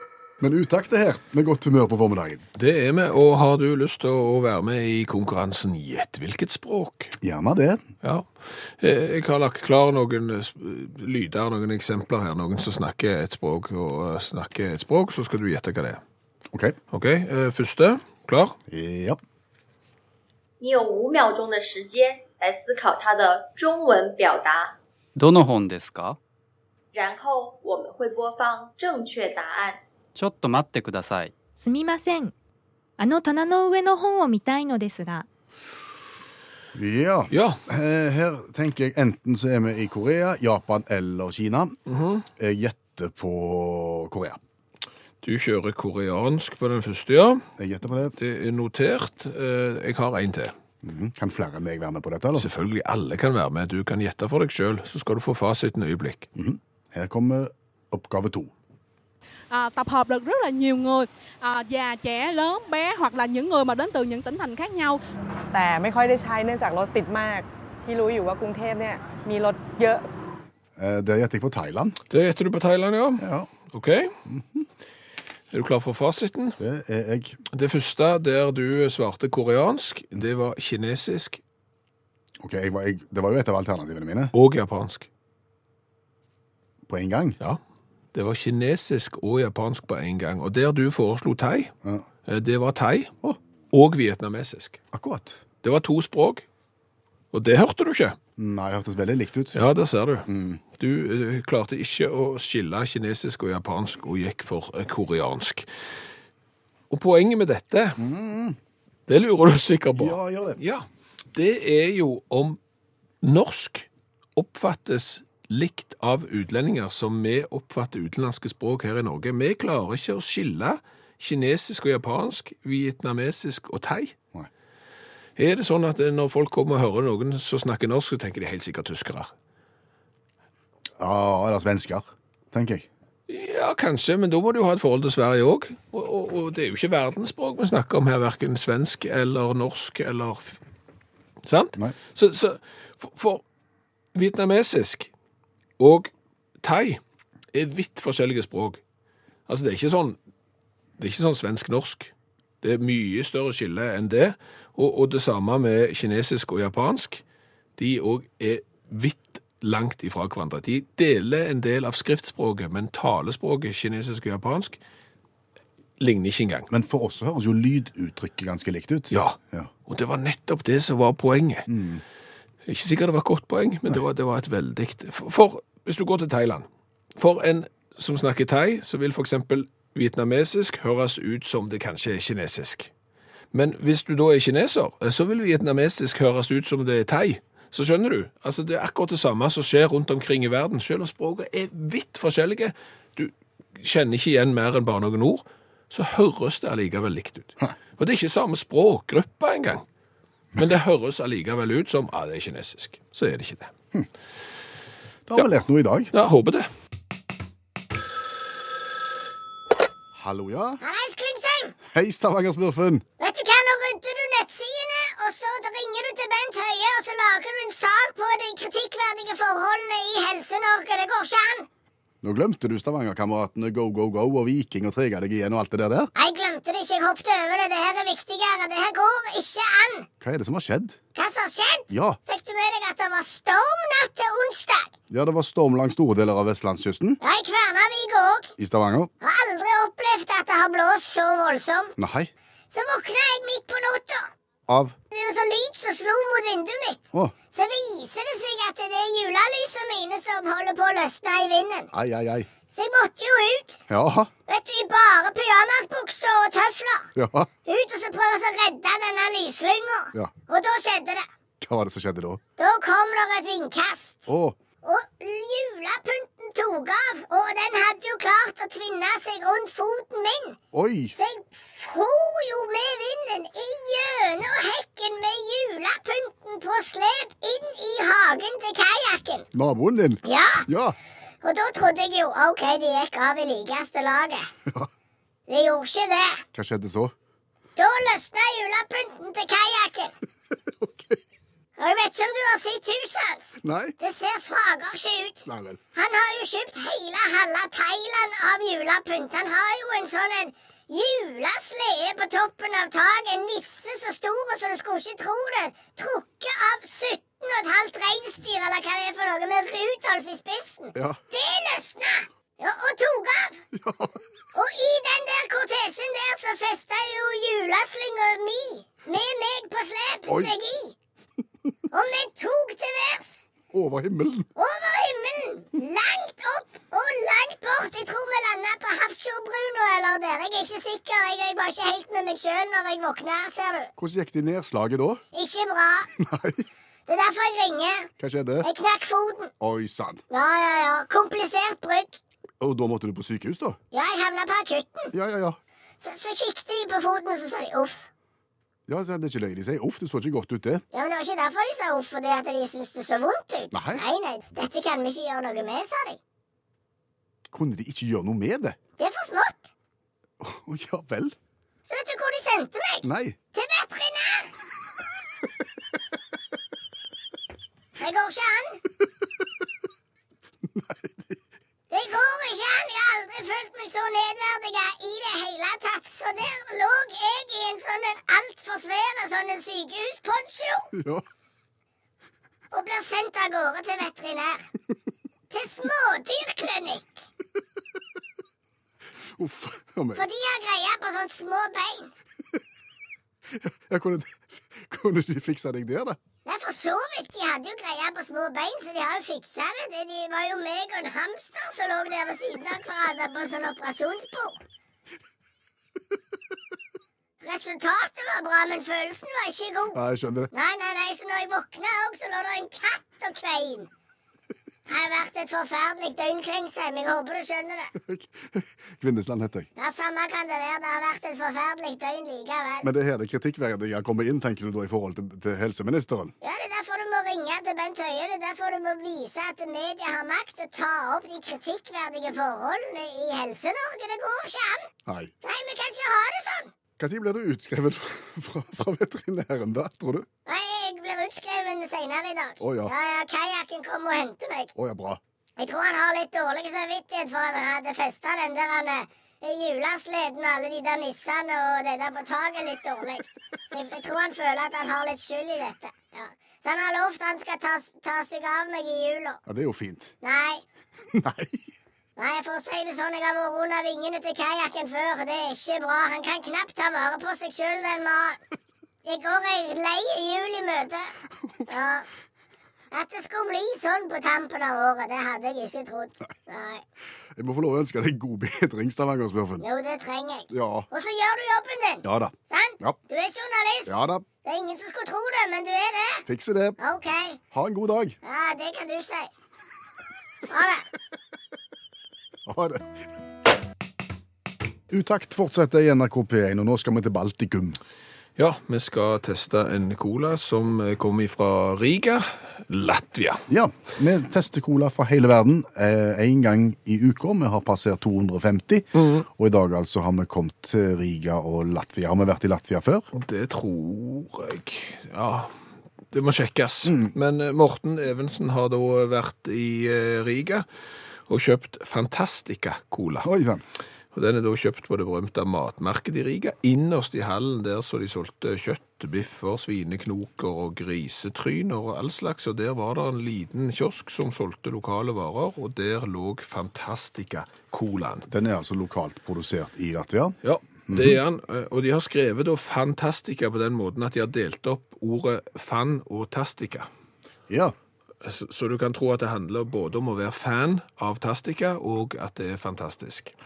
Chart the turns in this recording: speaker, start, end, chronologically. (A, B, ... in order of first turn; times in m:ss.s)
0:00.4-0:02.4 A
0:02.6-0:07.1 B
0:07.2-0:07.8 A
0:08.0-0:16.0 B
0:16.5-0:16.8 A
0:16.9-0:18.6 B
0:18.7-0:19.2 A
0:20.6-0:24.7 C
0:25.2-0:26.2 D
0:26.9-0:29.8 C
0:30.1-0:31.3 D
0:31.6-0:32.3 E
0:33.0-0:35.3 E
0:36.7-0:41.8 A
0:37.3-0:37.6 B
0:41.9-0:42.2 B
0:42.4-0:44.4 A
0:45.2-0:47.4 B
0:47.6-0:48.1 A
0:48.2-0:50.5 B
0:50.8-0:52.5 A
0:52.3-0:56.3 B
0:56.4-0:58.5 A
0:59.5-1:05.0 F
1:05.5-1:10.0 G
1:10.8-1:12.0 A
1:12.1-1:14.1 B
1:13.2-1:13.5 A
1:14.2-1:14.7 A
1:15.5-1:16.6 B
1:16.6-1:17.4 A
1:17.5-1:21.4 B
1:22.4-1:24.3 A
1:24.3-1:25.1 B
1:26.9-1:27.4 A
1:28.1-1:31.7 B
1:32.3-1:33.1 B
1:33.7-1:34.8 B
1:34.9-1:35.4 A
1:35.6-1:36.4 B
1:37.3-1:38.2 B
1:38.4-1:39.6 A
1:39.5-1:45.6 B
1:40.3-1:40.6 A
1:46.9-1:48.0 B
1:48.0-1:48.6 A
1:49.1-1:52.6 B
1:49.9-1:50.6 A
1:53.2-2:04.1 B
2:05.4-2:09.3 B
2:11.0-2:12.9 A
2:13.3-2:20.6 B
2:21.4-2:23.4 B
2:24.1-2:25.1 B
2:25.8-2:26.1 B
2:26.6-2:27.0 B
2:27.5-2:28.8 B
2:29.5-2:30.2 B
2:31.0-2:37.2 B
2:37.8-2:44.8 B
2:46.0-2:46.7 B
2:46.7-2:49.7 A
2:49.1-2:49.4 B
2:49.9-2:51.7 B
2:51.7-2:52.0 A
2:52.7-3:02.9 B
3:03.5-3:19.8 B
3:20.6-3:23.7 B
3:25.3-3:26.1 A
3:26.1-3:26.7 B
3:30.1-3:30.8 A
3:30.8-3:31.8 H
3:31.9-3:33.0 A
3:33.2-3:41.7 H
3:42.2-3:46.1 A
3:46.2-3:50.1 H
3:50.2-3:51.0 A
3:51.1-3:54.9 H
3:51.9-3:52.2 A
3:55.1-3:57.2 A
3:57.2-3:58.5 H
3:58.6-3:59.1 A
3:59.2-4:01.9 H
4:02.0-4:02.3 A
4:02.7-4:04.3 H
4:04.7-4:05.0 A
4:05.1-4:11.9 H
4:11.9-4:12.5 A
4:12.7-4:13.8 H
4:13.9-4:14.3 A
4:14.5-4:17.1 H
4:17.1-4:17.5 A
4:17.6-4:21.3 H
4:21.6-4:22.4 A
4:22.6-4:24.3 H
4:24.3-4:24.6 A
4:24.8-4:30.6 H
4:30.7-4:31.2 A
4:31.1-4:39.5 H
4:39.5-4:41.0 A
4:40.2-4:40.7 H
4:41.4-4:44.5 H
4:45.5-4:46.4 H
4:46.5-4:47.1 A
4:47.8-4:50.1 H
4:50.8-4:51.2 A
4:51.8-5:13.6 H
4:53.6-4:54.0 A
4:55.4-4:55.8 A
5:10.9-5:11.2 A
5:13.7-5:14.2 A
5:14.5-5:20.9 H
5:20.3-5:20.5 A
5:21.9-5:23.4 H
5:23.7-5:24.5 A
5:24.6-5:33.9 H
5:34.0-5:35.2 A
5:35.3-5:36.1 H
5:36.2-5:36.6 A
5:37.1-5:38.1 H
5:38.2-5:38.7 A
5:38.6-5:39.5 H
5:39.6-5:40.2 A
5:40.3-5:42.2 H
5:42.6-5:43.8 A
5:43.9-5:45.1 H
5:45.1-5:45.6 A
5:46.0-5:48.1 H
5:48.9-5:50.8 A
5:50.9-5:56.2 H
5:53.7-5:54.0 A
5:57.5-5:58.8 A
5:59.0-5:59.7 H
6:00.4-6:01.3 A
6:01.9-6:04.5 H
6:03.0-6:03.4 A
6:08.0-6:08.8 H
6:10.6-6:11.4 A
6:11.9-6:20.9 H
6:20.9-6:21.2 A
6:22.7-6:24.7 H
6:25.5-6:27.3 H
6:29.4-6:30.2 A
6:30.2-6:32.1 H
6:33.5-6:36.2 A
6:36.4-6:44.6 H
6:47.4-6:50.0 H
6:49.9-6:50.5 A
6:50.5-6:53.9 H
6:54.9-6:57.9 H
6:58.0-6:59.7 A
6:59.8-7:02.9 H
7:02.8-7:06.3 A
7:06.4-7:14.9 H
7:15.0-7:15.3 A
7:15.4-7:16.7 H
7:17.0-7:20.3 A
7:20.4-7:24.7 H
7:22.6-7:22.9 A
7:24.8-7:25.2 A
7:25.6-7:39.4 H
7:39.4-7:40.1 A
7:40.2-7:40.6 H
7:41.1-7:41.7 A
7:42.2-7:48.4 H
7:49.0-7:51.1 H
7:51.7-7:52.0 H
7:52.9-7:56.8 H
7:57.3-7:59.6 A
7:59.6-8:03.9 H
8:00.5-8:00.9 A
8:02.0-8:03.0 A
8:03.9-8:04.2 A
8:04.4-8:06.2 H
8:06.2-8:06.8 A
8:06.8-8:07.4 H
8:07.5-8:08.2 A
8:08.2-8:09.3 H
8:10.5-8:10.8 H
8:12.4-8:12.9 A
8:14.9-8:17.8 A
8:18.4-8:23.4 B
8:23.5-8:33.1 A
8:28.9-8:29.2 B
8:33.1-8:35.5 B
8:36.1-8:40.6 B
8:36.8-8:37.1 A
8:41.3-8:43.3 B
8:43.2-8:43.6 A
8:44.1-8:58.3 B
8:58.3-9:00.4 A
9:00.4-9:06.9 B
9:00.9-9:01.2 A
9:08.2-9:13.3 B